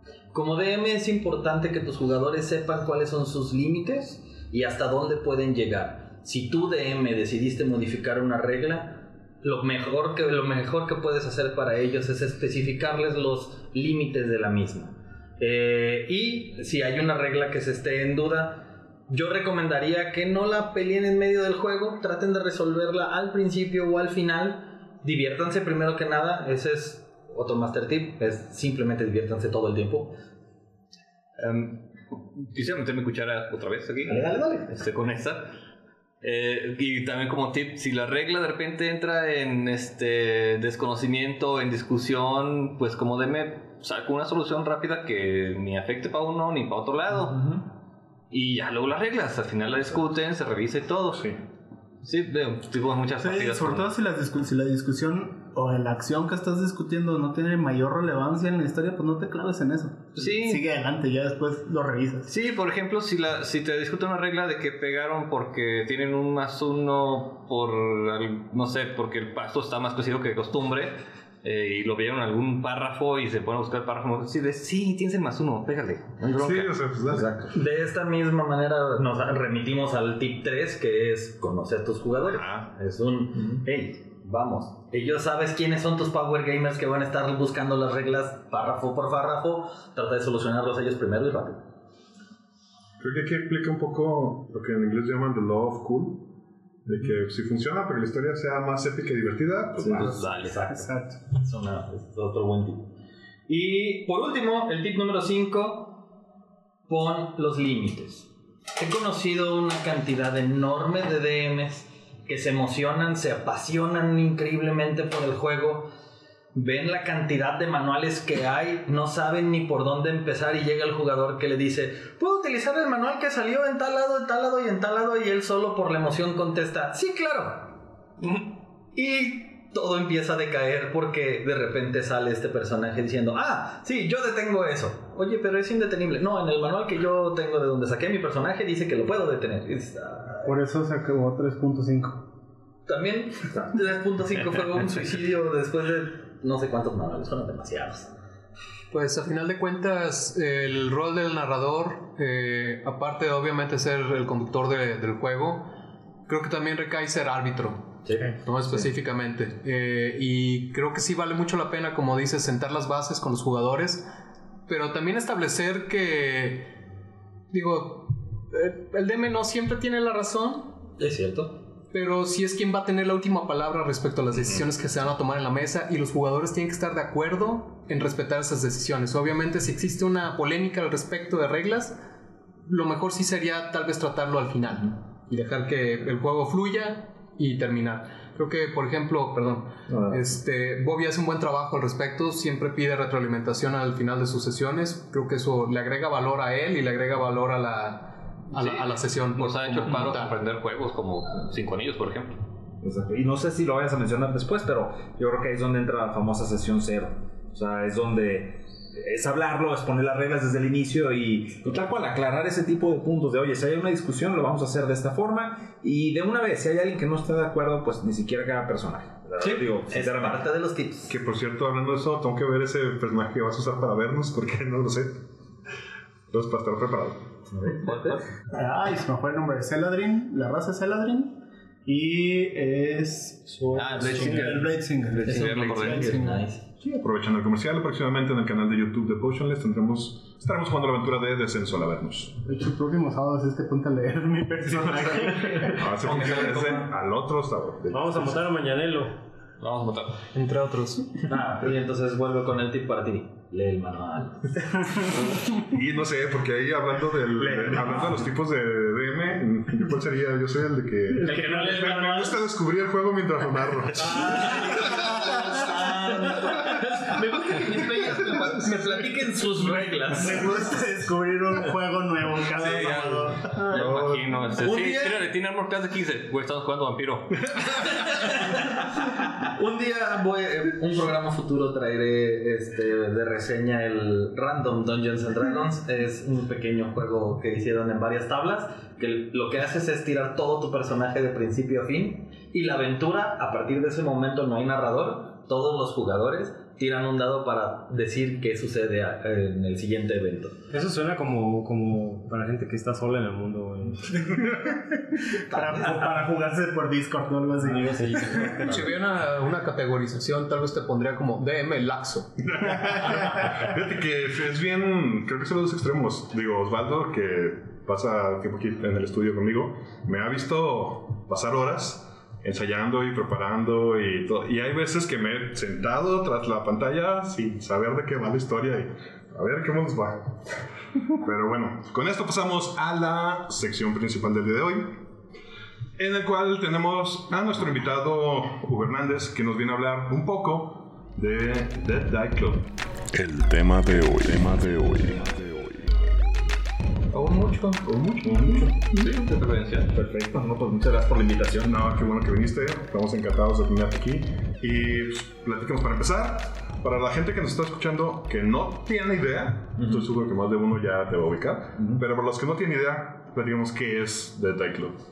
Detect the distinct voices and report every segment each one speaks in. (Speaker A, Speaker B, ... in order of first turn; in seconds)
Speaker A: 0.3-30.2, 77.5-91.6, 100.0-102.9, 103.5-106.0, 106.9-115.9, 116.5-140.5, 142.8-148.1, 158.1-158.3, 171.0-171.6, 219.4-221.1, 227.5-228.2, 234.2-234.5, 235.2-236.6, 246.0-246.6, 251.3-254.8, 261.2-262.3, 263.9-270.9, 274.7-275.1, 277.8-278.8, 279.4-300.6
Speaker B: 31.4-35.5, 36.2-47.6, 48.3-51.4, 52.0-53.9, 60.1-60.6, 62.3-77.2, 198.6-202.4, 227.8-228.2, 233.7-236.3, 246.1-246.8, 249.6-250.2, 272.6-277.5, 307.9-308.5, 347.1-349.9
Speaker C: 51.1-51.4, 76.4-77.3, 93.0-96.3, 96.8-100.1, 221.1-225.2, 226.3-227.2, 236.8-242.3, 245.7-248.3, 255.7-264.6, 273.8-274.3, 312.5-330.4, 331.2-335.0, 336.0-342.7, 348.2-348.7, 351.6-365.0
Speaker D: 53.2-62.3, 100.0-101.2, 140.4-142.2, 228.5-236.4, 242.4-245.9, 261.1-262.3, 266.0-268.7, 269.7-273.8, 305.5-308.6
Speaker E: 148.9-155.7, 156.3-164.1, 164.7-166.7, 167.5-170.8, 171.9-182.0, 182.6-200.4, 250.3-251.2, 308.4-312.7
Speaker F: 202.8-220.4, 257.4-258.1, 348.2-349.1, 349.9-351.8, 359.8-360.0
Speaker G: 247.9-249.2, 300.7-304.1
Speaker H: 343.1-346.0